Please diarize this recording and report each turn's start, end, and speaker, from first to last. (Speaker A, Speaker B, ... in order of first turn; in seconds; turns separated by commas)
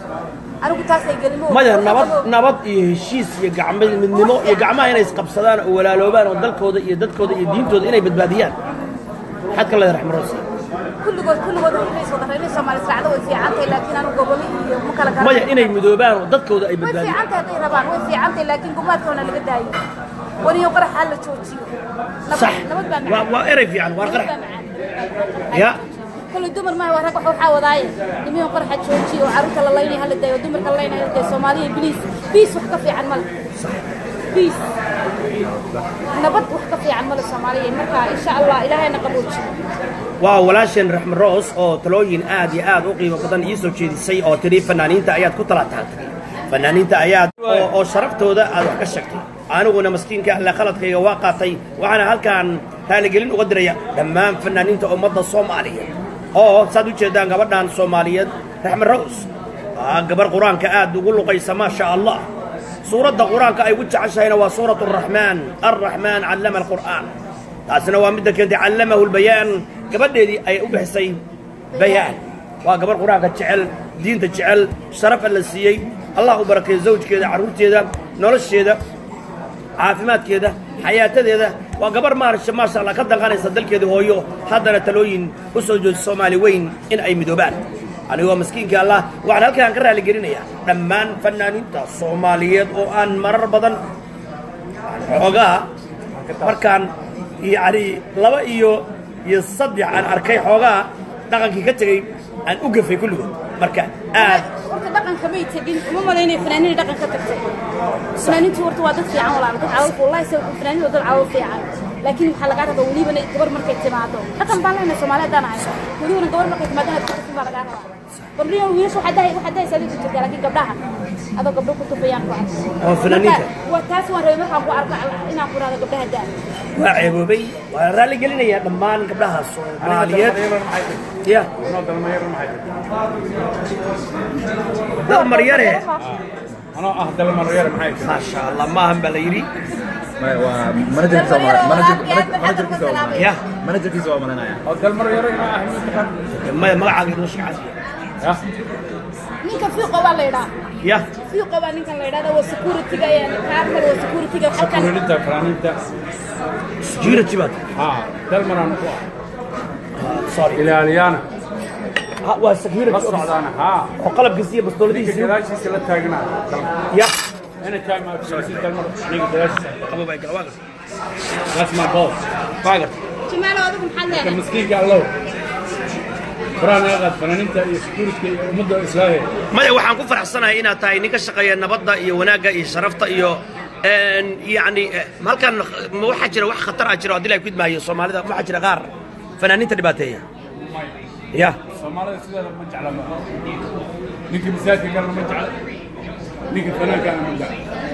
Speaker A: 0.6-2.3, Speaker B: 1.5-8.5, Speaker A: 4.1-5.2, Speaker B: 9.5-10.4, Speaker A: 11.0-15.7, Speaker B: 15.2-17.2, Speaker A: 16.8-19.8, Speaker A: 20.4-21.7, Speaker A: 22.3-23.4, Speaker B: 22.3-24.3, Speaker A: 24.0-33.3, Speaker B: 25.5-25.8, Speaker B: 33.6-33.8, Speaker A: 34.3-34.6, Speaker C: 35.4-35.9, Speaker A: 36.1-39.5, Speaker B: 40.2-62.2, Speaker B: 62.8-67.1, Speaker B: 67.7-71.2, Speaker A: 71.7-72.2, Speaker B: 71.7-78.8, Speaker B: 79.8-93.8, Speaker B: 94.8-95.7, Speaker D: 96.1-96.6, Speaker B: 96.4-104.5, Speaker A: 104.1-107.5, Speaker B: 108.1-108.4, Speaker A: 108.2-120.8, Speaker A: 121.4-126.3, Speaker B: 122.8-123.5, Speaker B: 126.8-130.4, Speaker D: 129.8-131.0, Speaker B: 131.2-131.5, Speaker D: 131.6-132.8, Speaker B: 135.0-135.8, Speaker A: 135.0-136.1, Speaker D: 136.7-138.2, Speaker B: 138.0-139.5, Speaker C: 140.2-144.6, Speaker A: 141.0-143.3, Speaker B: 143.1-143.4, Speaker D: 144.6-146.1, Speaker B: 146.4-148.1, Speaker A: 149.4-150.5, Speaker B: 150.8-151.1, Speaker A: 151.2-154.9, Speaker D: 154.5-155.8, Speaker B: 156.8-157.6, Speaker D: 157.0-159.0, Speaker B: 159.9-160.6, Speaker D: 160.5-161.2, Speaker B: 162.2-163.3, Speaker D: 162.9-163.9, Speaker B: 164.0-165.3, Speaker D: 164.9-166.8, Speaker B: 166.9-167.2, Speaker D: 167.6-169.8, Speaker B: 168.2-168.7, Speaker B: 169.8-170.6, Speaker D: 171.5-172.2, Speaker B: 172.6-173.0, Speaker A: 173.3-174.4, Speaker D: 174.1-175.1, Speaker D: 176.6-179.3, Speaker B: 179.5-190.2, Speaker D: 190.6-190.9, Speaker B: 191.3-191.6, Speaker D: 191.7-193.1, Speaker D: 194.3-195.5, Speaker D: 196.5-197.6